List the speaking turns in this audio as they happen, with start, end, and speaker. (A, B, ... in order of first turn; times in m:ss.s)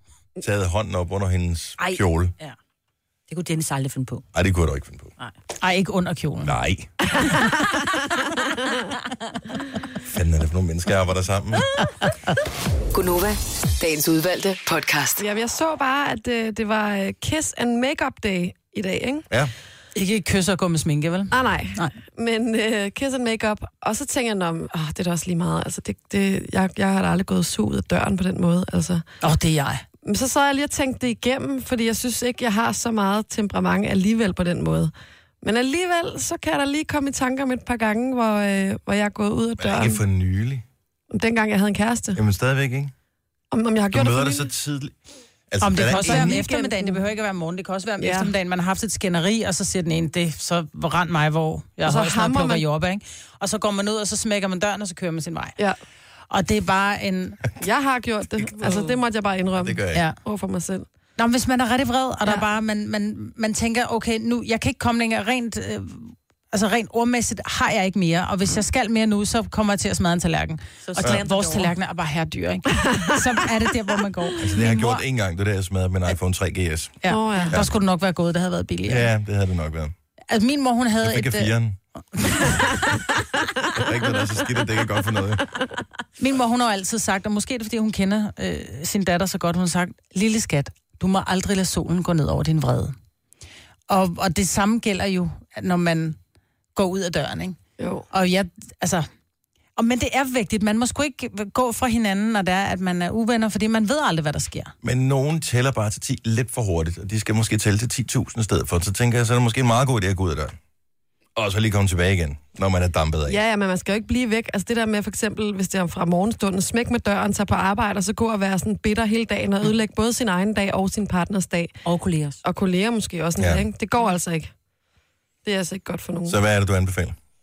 0:00.4-0:02.3 A
0:01.8-0:02.6 B
0:03.3-0:04.2 B
0:04.3-0:05.1 A
0:05.6-0:06.6 C
0:06.4-0:07.2 A
0:10.0-0:11.6 A
0:12.0-0:12.3 C
0:12.9-0:15.2 D
0:15.2-0:19.3 E
0:20.0-0:21.9 C
0:21.3-0:29.0 E
0:29.2-0:29.8 C
0:30.0-0:40.0 E
0:39.6-0:40.6 A
0:41.1-0:42.2 E
0:42.2-0:42.9 A
0:43.5-0:44.5 E
0:43.9-0:44.9 A
0:45.5-0:46.4 A
0:45.6-0:55.6 C
0:45.8-0:47.0 E
0:48.0-0:48.3 E
0:51.8-0:52.6 E
0:56.3-0:57.4 C
0:57.6-1:00.9 E
0:58.6-0:58.9 C
0:59.6-1:00.0 A
1:01.2-1:15.0 C
1:10.9-1:11.7 B
1:14.4-1:17.7 A
1:17.0-1:19.1 C
1:17.1-1:17.6 E
1:18.9-1:19.9 A
1:20.3-1:21.5 C
1:21.0-1:21.8 A
1:22.2-1:22.6 C
1:23.8-1:25.5 A
1:26.2-1:33.0 C
1:33.9-1:36.2 C
1:36.8-1:37.6 C
1:37.8-1:38.1 E
1:38.1-1:39.1 C
1:39.8-1:44.7 C
1:44.8-1:50.6 A
1:51.4-1:53.4 A
1:53.3-2:01.7 E
2:01.8-2:02.4 B
2:02.4-2:04.5 E
2:03.4-2:03.7 A
2:05.4-2:06.4 E
2:06.3-2:07.2 A